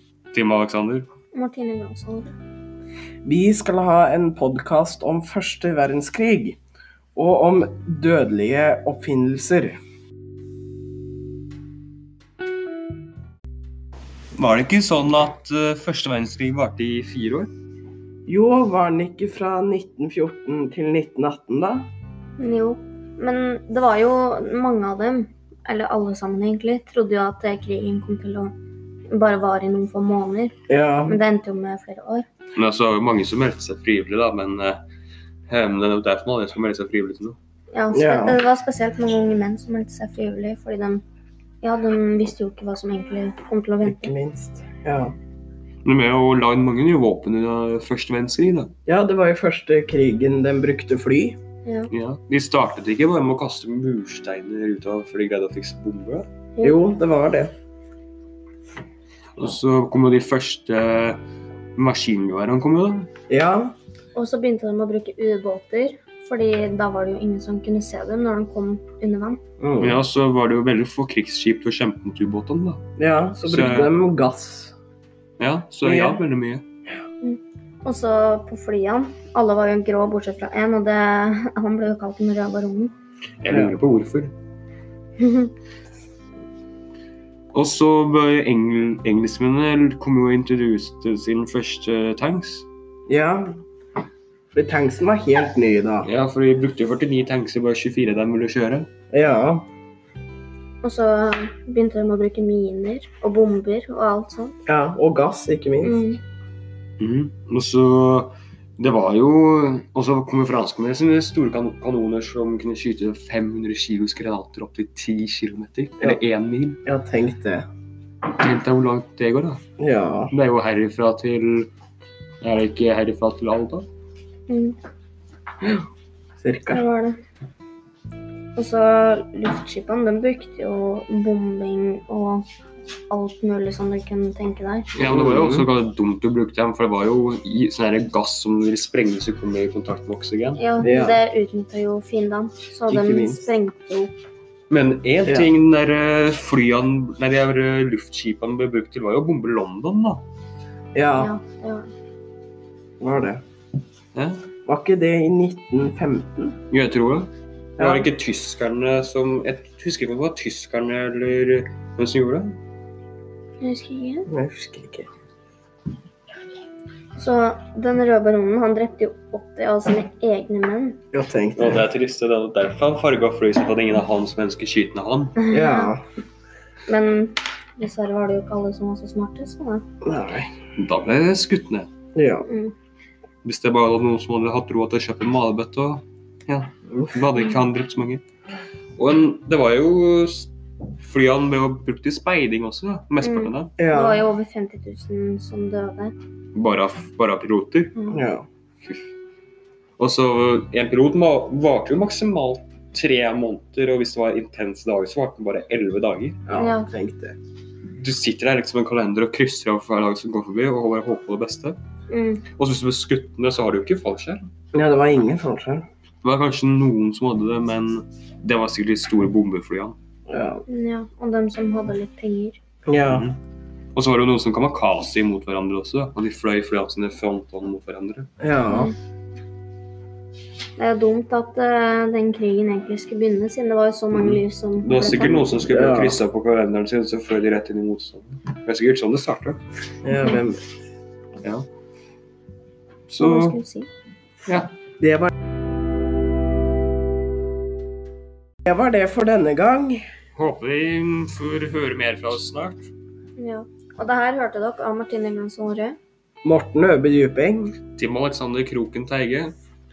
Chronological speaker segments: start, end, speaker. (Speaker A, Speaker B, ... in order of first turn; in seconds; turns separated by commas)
Speaker A: 0.3-1.1, Speaker B: 1.3-2.3, Speaker C: 3.2-6.6, Speaker C: 7.1-9.8, Speaker A: 14.3-17.5, Speaker C: 18.3-21.9, Speaker B: 22.4-28.5, Speaker B: 29.1-30.5, Speaker C: 30.7-31.2, Speaker B: 31.1-32.2, Speaker A: 32.5-34.8, Speaker A: 35.5-37.4, Speaker B: 37.7-41.0, Speaker C: 37.9-38.4, Speaker B: 41.6-44.1, Speaker C: 43.8-45.1, Speaker A: 45.8-48.7, Speaker C: 48.9-51.4, Speaker A: 51.9-56.3, Speaker C: 56.6-57.5, Speaker A: 59.4-61.2, Speaker A: 61.8-63.1, Speaker C: 63.3-63.7, Speaker B: 64.1-69.4, Speaker C: 69.6-70.0, Speaker A: 69.8-72.8, Speaker C: 73.0-74.7, Speaker A: 73.4-73.9, Speaker A: 75.4-76.6, Speaker C: 75.8-76.2, Speaker B: 77.2-82.9, Speaker A: 83.4-84.3, Speaker C: 83.5-83.8, Speaker B: 85.2-85.5, Speaker A: 87.5-92.7, Speaker C: 93.1-93.5, Speaker C: 94.5-96.1, Speaker A: 96.0-98.9, Speaker C: 99.1-99.6, Speaker B: 100.8-104.5, Speaker C: 104.7-106.0, Speaker B: 105.8-106.2, Speaker A: 107.0-116.8, Speaker C: 116.8-117.7, Speaker A: 118.3-119.6, Speaker C: 119.8-120.3, Speaker A: 120.3-121.7, Speaker A: 122.4-123.9, Speaker B: 124.5-124.8, Speaker C: 126.4-126.8, Speaker B: 126.7-127.2, Speaker B: 128.6-132.4, Speaker B: 133.1-134.9, Speaker A: 134.9-140.6, Speaker C: 135.0-135.7, Speaker B: 140.6-144.1, Speaker C: 140.8-141.2, Speaker C: 142.9-143.4, Speaker A: 144.7-150.2, Speaker C: 150.9-151.3, Speaker B: 151.2-151.8, Speaker C: 153.0-153.4, Speaker A: 154.1-154.4, Speaker C: 154.7-156.6, Speaker A: 156.7-162.6, Speaker C: 157.8-158.1, Speaker B: 163.6-164.3, Speaker C: 164.3-165.1, Speaker B: 167.1-171.0, Speaker C: 171.1-171.8, Speaker A: 171.6-175.4, Speaker B: 175.4-175.9, Speaker C: 175.5-176.0, Speaker B: 176.8-179.8, Speaker C: 180.0-180.5, Speaker A: 180.8-181.9, Speaker C: 182.1-182.4, Speaker B: 182.5-182.7, Speaker A: 183.4-188.2, Speaker C: 186.9-187.2, Speaker A: 189.0-193.7, Speaker B: 193.2-196.1, Speaker C: 193.8-194.3, Speaker A: 196.5-197.9, Speaker B: 197.9-198.2, Speaker C: 198.1-198.4, Speaker A: 200.0-206.4, Speaker C: 206.5-207.4, Speaker B: 206.5-206.9, Speaker A: 208.0-211.8, Speaker B: 212.1-212.4, Speaker A: 212.5-214.5, Speaker C: 214.7-215.8, Speaker A: 216.2-219.9, Speaker C: 220.3-220.6, Speaker B: 220.7-222.6, Speaker C: 222.8-223.3, Speaker A: 223.1-223.4, Speaker A: 223.9-228.3, Speaker C: 228.4-228.9, Speaker B: 228.7-228.9, Speaker B: 230.8-235.5, Speaker A: 234.1-239.6, Speaker C: 235.7-236.2, Speaker C: 240.0-240.6, Speaker A: 243.1-243.6, Speaker B: 243.2-243.9, Speaker A: 244.4-244.7, Speaker C: 245.0-245.3, Speaker C: 248.6-250.0, Speaker A: 250.3-252.9, Speaker B: 253.4-256.0, Speaker C: 256.4-257.8, Speaker A: 257.9-259.5